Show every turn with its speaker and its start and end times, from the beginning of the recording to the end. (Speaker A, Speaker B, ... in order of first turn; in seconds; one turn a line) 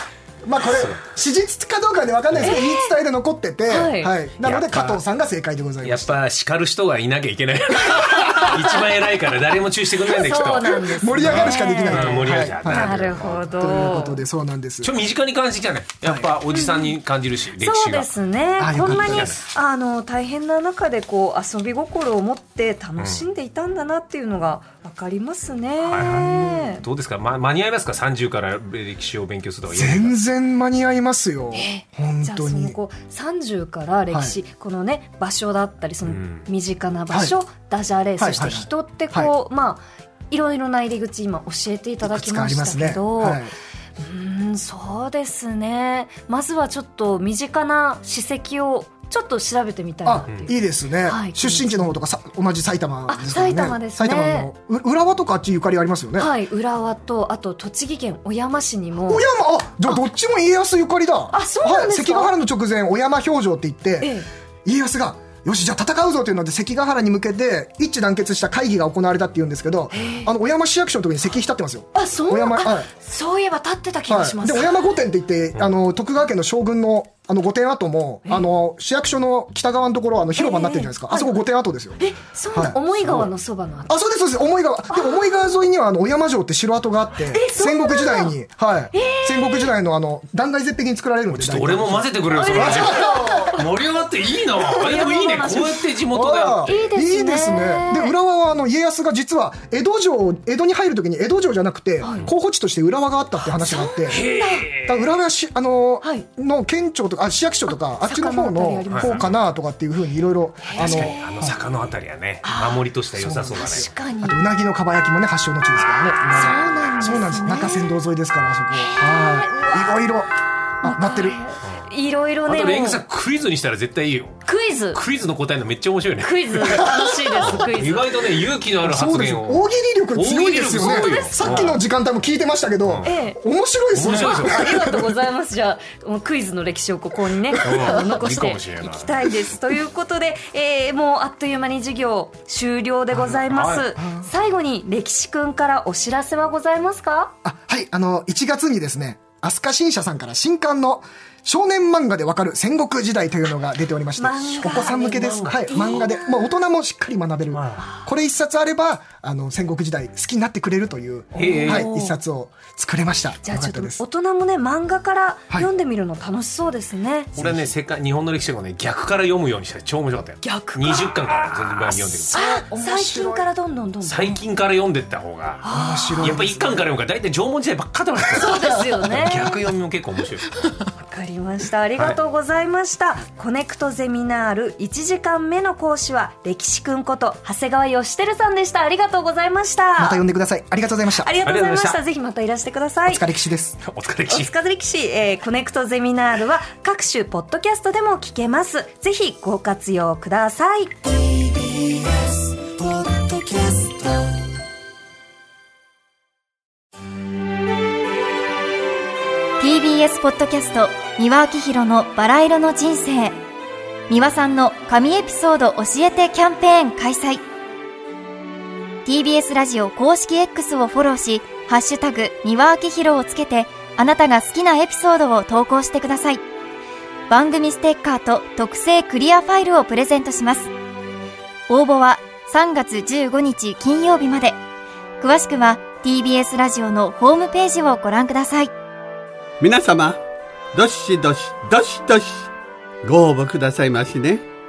Speaker A: 0.4-6.1
Speaker B: 2.4-2.9
Speaker B: 3.7-4.2
Speaker C: 4.4-5.0
Speaker C: 5.8-13.5
Speaker A: 7.8-8.6
Speaker B: 8.2-8.8
Speaker B: 10.1-14.2
Speaker A: 10.2-14.9
Speaker C: 14.8-18.1
Speaker A: 16.0-16.3
Speaker B: 16.5-16.9
Speaker B: 17.6-26.8
Speaker A: 18.6-19.4
Speaker C: 18.9-19.4
Speaker C: 25.9-30.1
Speaker A: 26.0-26.5
Speaker A: 29.7-32.8
Speaker B: 31.5-43.4
Speaker A: 34.1-34.4
Speaker C: 36.1-36.4
Speaker A: 38.2-39.3
Speaker A: 42.0-43.5
Speaker B: 44.0-51.9
Speaker A: 50.0-56.3
Speaker B: 53.1-54.5
Speaker B: 56.2-59.2
Speaker A: 59.1-72.9
Speaker B: 61.3-62.3
Speaker B: 64.0-64.3
Speaker B: 69.9-70.3
Speaker B: 71.9-74.8
Speaker A: 74.1-82.0
Speaker B: 80.4-81.4
Speaker B: 82.0-83.9
Speaker A: 82.5-83.3
Speaker A: 83.9-93.6
Speaker B: 84.9-85.2
Speaker B: 87.3-88.3
Speaker B: 88.9-89.7
Speaker C: 91.3-96.8
Speaker B: 92.3-93.6
Speaker B: 94.6-95.9
Speaker A: 96.1-104.2
Speaker B: 96.6-98.1
Speaker B: 102.0-102.3
Speaker B: 103.6-104.7
Speaker C: 104.0-105.1
Speaker A: 104.8-111.5
Speaker B: 108.0-109.3
Speaker C: 108.9-109.4
Speaker B: 110.6-111.4
Speaker C: 110.8-113.9
Speaker B: 112.4-112.8
Speaker A: 113.1-120.3
Speaker B: 113.5-114.4
Speaker C: 115.8-117.5
Speaker B: 116.3-118.0
Speaker B: 118.8-120.0
Speaker A: 120.8-121.4
Speaker B: 120.8-123.0
Speaker C: 122.5-124.4
Speaker B: 124.5-125.0
Speaker C: 124.9-126.9
Speaker B: 126.2-128.1
Speaker A: 126.7-127.6
Speaker C: 127.4-131.8
Speaker A: 128.8-135.1
Speaker B: 130.8-131.8
Speaker C: 132.8-133.1
Speaker B: 133.0-133.4
Speaker C: 133.9-134.6
Speaker B: 134.1-147.3
Speaker C: 137.6-139.3
Speaker C: 143.1-143.9
Speaker A: 144.0-144.2
Speaker A: 147.4-164.0
Speaker B: 154.2-156.6
Speaker C: 155.1-155.9
Speaker C: 157.5-157.8
Speaker C: 161.3-161.9
Speaker B: 161.3-162.1
Speaker B: 163.4-167.4
Speaker C: 167.3-172.4
Speaker B: 170.4-174.4
Speaker A: 172.1-173.4
Speaker C: 174.0-175.6
Speaker B: 175.6-176.3
Speaker A: 175.7-176.8
Speaker C: 176.2-180.5
Speaker B: 178.3-179.6
Speaker B: 181.0-190.2
Speaker A: 190.0-191.3
Speaker B: 191.2-193.2
Speaker C: 191.4-192.0
Speaker A: 193.1-193.8
Speaker C: 193.8-194.5
Speaker B: 194.3-201.7
Speaker D: 209.6-213.4
Speaker D: 214.1-217.4
Speaker D: 219.0-226.4
Speaker D: 227.3-230.7
Speaker D: 231.7-234.6
Speaker D: 235.2-238.7
Speaker E: 239.6-240.2
Speaker E: 240.7-242.5
Speaker E: 243.0-244.4